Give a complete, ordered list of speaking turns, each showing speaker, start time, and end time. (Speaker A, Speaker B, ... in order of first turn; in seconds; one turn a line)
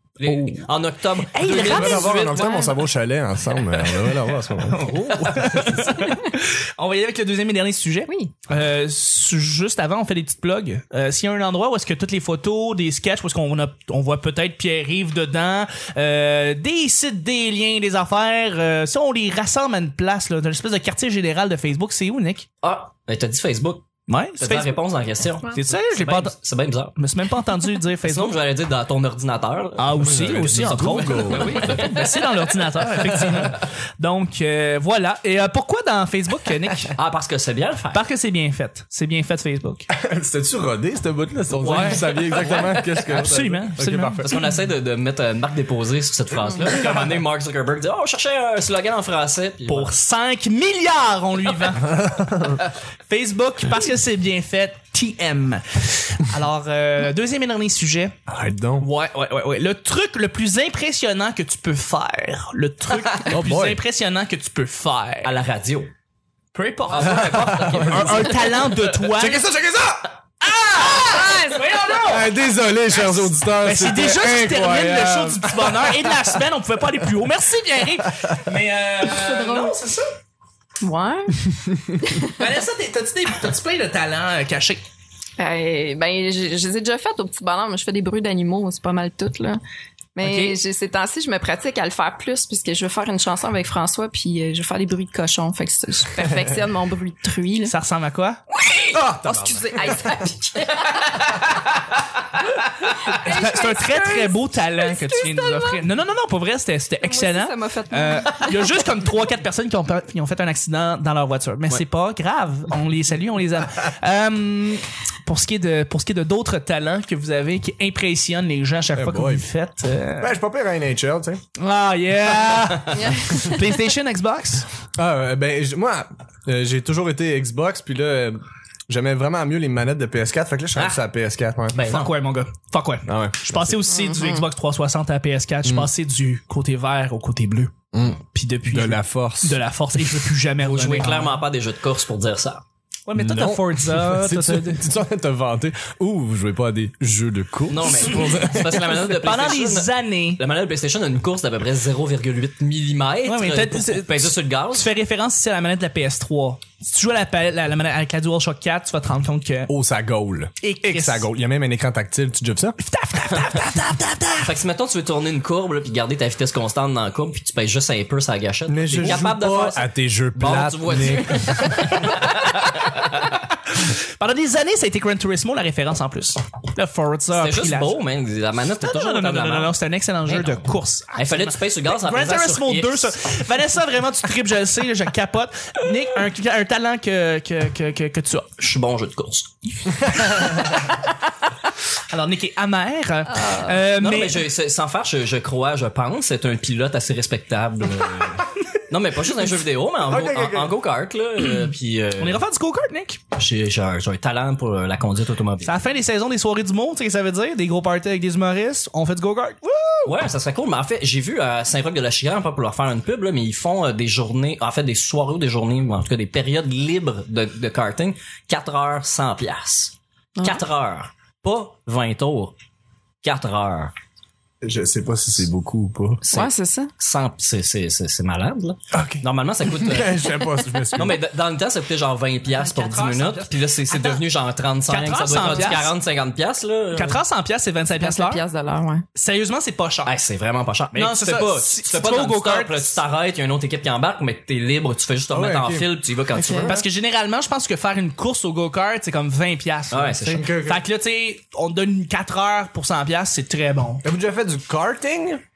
Speaker A: 0.2-2.4
Speaker B: 0.2-0.7
Speaker B: 1.3-2.6
Speaker C: 1.5-5.0
Speaker D: 2.0-2.7
Speaker B: 4.7-22.5
Speaker A: 5.0-6.0
Speaker D: 5.9-6.3
Speaker A: 22.6-23.9
Speaker B: 24.1-24.8
Speaker A: 24.4-27.0
Speaker B: 25.5-26.4
Speaker B: 26.9-28.4
Speaker A: 28.0-32.3
Speaker B: 29.8-36.9
Speaker C: 30.0-31.7
Speaker A: 33.2-33.5
Speaker A: 36.9-38.0
Speaker B: 37.9-39.9
Speaker C: 39.9-44.4
Speaker B: 41.6-44.3
Speaker A: 41.7-42.9
Speaker A: 44.2-50.0
Speaker B: 49.7-52.0
Speaker C: 51.8-52.6
Speaker B: 53.1-58.1
Speaker C: 58.3-58.9
Speaker B: 58.8-65.3
Speaker C: 63.2-63.8
Speaker A: 65.2-65.9
Speaker A: 66.5-69.0
Speaker B: 66.6-69.4
Speaker C: 67.0-70.1
Speaker B: 70.4-72.2
Speaker D: 70.8-71.9
Speaker C: 72.0-76.4
Speaker B: 72.9-80.1
Speaker C: 78.0-78.4
Speaker D: 79.0-79.8
Speaker D: 80.8-82.5
Speaker C: 81.5-81.9
Speaker B: 82.3-84.8
Speaker D: 85.4-89.6
Speaker D: 90.2-97.7
Speaker B: 90.2-90.6
Speaker B: 97.6-98.4
Speaker D: 98.5-101.6
Speaker C: 98.9-100.3
Speaker B: 101.0-102.0
Speaker D: 102.8-105.8
Speaker B: 102.9-120.3
Speaker D: 107.0-108.8
Speaker C: 118.9-119.5
Speaker C: 120.2-121.4
Speaker B: 121.6-124.7
Speaker D: 122.9-123.5
Speaker C: 125.0-131.8
Speaker A: 130.7-131.0
Speaker A: 131.7-132.1
Speaker B: 131.8-137.7
Speaker C: 133.1-133.9
Speaker D: 133.8-134.5
Speaker C: 135.6-135.9
Speaker C: 137.9-139.6
Speaker B: 138.3-141.4
Speaker A: 140.6-142.6
Speaker B: 143.1-144.8
Speaker C: 143.2-149.0
Speaker A: 147.7-154.9
Speaker B: 148.9-150.4
Speaker B: 153.2-159.7
Speaker C: 159.7-162.8
Speaker B: 160.6-161.2
Speaker B: 162.8-164.5
Speaker A: 164.4-173.2
Speaker C: 168.7-171.8
Speaker B: 173.2-178.0
Speaker A: 177.3-179.7
Speaker B: 178.8-188.5
Speaker A: 180.3-183.3
Speaker A: 188.6-189.5
Speaker B: 190.0-191.1
Speaker B: 192.1-194.5
Speaker D: 193.3-193.8
Speaker A: 193.9-202.4
Speaker C: 200.0-200.8
Speaker B: 202.2-203.2
Speaker A: 203.3-205.8
Speaker B: 205.6-210.1
Speaker A: 210.0-222.5
Speaker D: 220.4-220.6
Speaker A: 223.2-223.9
Speaker C: 224.6-226.2
Speaker A: 226.3-230.2
Speaker D: 226.3-226.9
Speaker C: 228.9-231.2
Speaker A: 230.9-237.2
Speaker B: 232.6-233.5
Speaker D: 233.9-234.2
Speaker B: 234.9-235.9
Speaker D: 235.4-235.8
Speaker B: 236.9-238.4
Speaker D: 238.0-239.0
Speaker B: 239.1-240.1
Speaker A: 240.1-246.8
Speaker B: 240.9-243.0
Speaker C: 245.3-246.0
Speaker D: 246.3-246.8
Speaker B: 246.6-254.0
Speaker A: 249.9-250.4
Speaker C: 250.3-250.8
Speaker C: 254.0-255.4